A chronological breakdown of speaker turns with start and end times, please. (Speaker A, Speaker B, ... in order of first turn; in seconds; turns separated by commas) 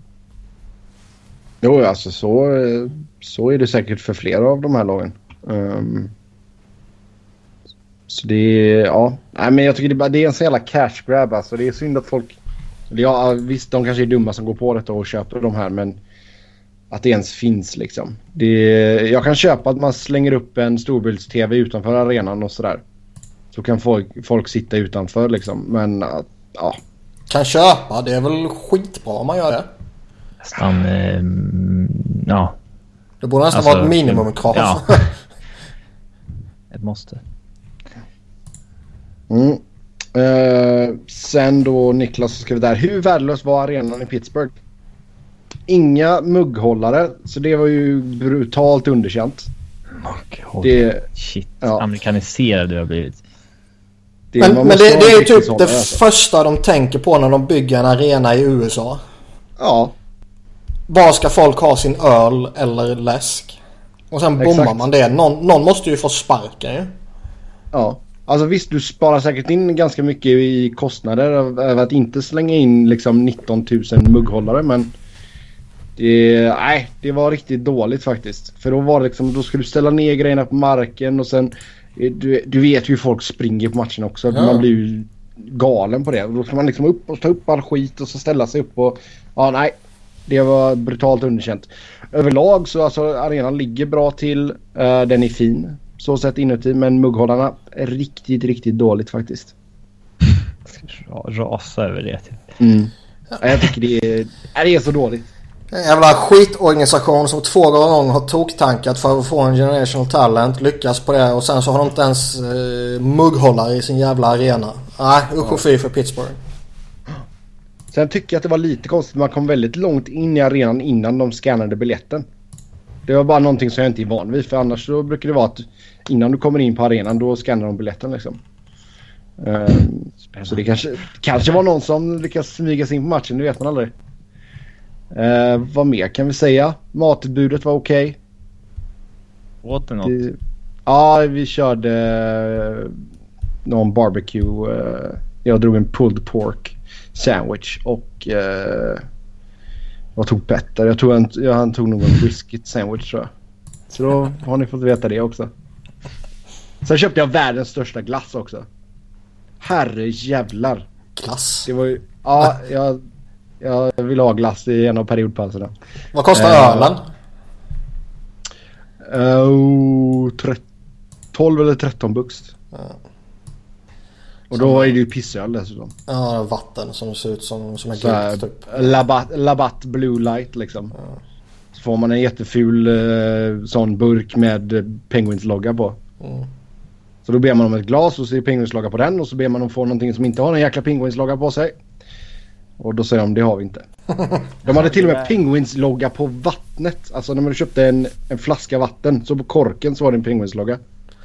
Speaker A: 1.6-6.1, Speaker A: 8.1-12.4, Speaker A: 12.9-16.0, Speaker A: 16.9-22.8, Speaker A: 23.5-26.8, Speaker B: 27.3-29.7, Speaker C: 30.4-32.5, Speaker B: 33.2-35.1, Speaker C: 33.5-35.0, Speaker C: 36.7-37.2, Speaker A: 39.3-39.6, Speaker A: 40.1-44.5, Speaker A: 45.7-49.5, Speaker C: 50.0-53.2, Speaker A: 50.6-51.0, Speaker A: 54.3-56.0, Speaker B: 54.4-59.0, Speaker A: 59.6-59.9, Speaker B: 60.9-63.6, Speaker B: 64.1-66.9, Speaker A: 64.4-64.8, Speaker A: 67.7-74.9, Speaker A: 76.0-89.7, Speaker B: 84.3-84.6, Speaker A: 90.3-99.5, Speaker C: 100.8-102.4, Speaker A: 102.6-105.3, Speaker B: 105.7-116.4, Speaker A: 117.9-122.2, Speaker A: 123.1-128.4, Speaker A: 129.4-133.9, Speaker A: 135.1-138.2, Speaker C: 139.6-140.2, Speaker A: 140.1-142.9, Speaker A: 143.7-149.0, Speaker A: 150.2-153.3, Speaker A: 153.9-155.5, Speaker A: 156.8-158.7, Speaker A: 159.6-160.9, Speaker B: 161.2-161.7, Speaker A: 161.7-163.0, Speaker A: 163.6-165.7, Speaker B: 166.1-167.0, Speaker A: 166.3-167.0, Speaker A: 169.1-170.6, Speaker A: 171.3-172.5, Speaker A: 174.5-175.9, Speaker B: 174.5-174.9, Speaker B: 176.1-178.9, Speaker A: 178.0-180.9, Speaker A: 181.7-186.0, Speaker A: 187.3-191.8, Speaker A: 192.8-193.8, Speaker A: 194.7-200.8, Speaker C: 194.7-195.3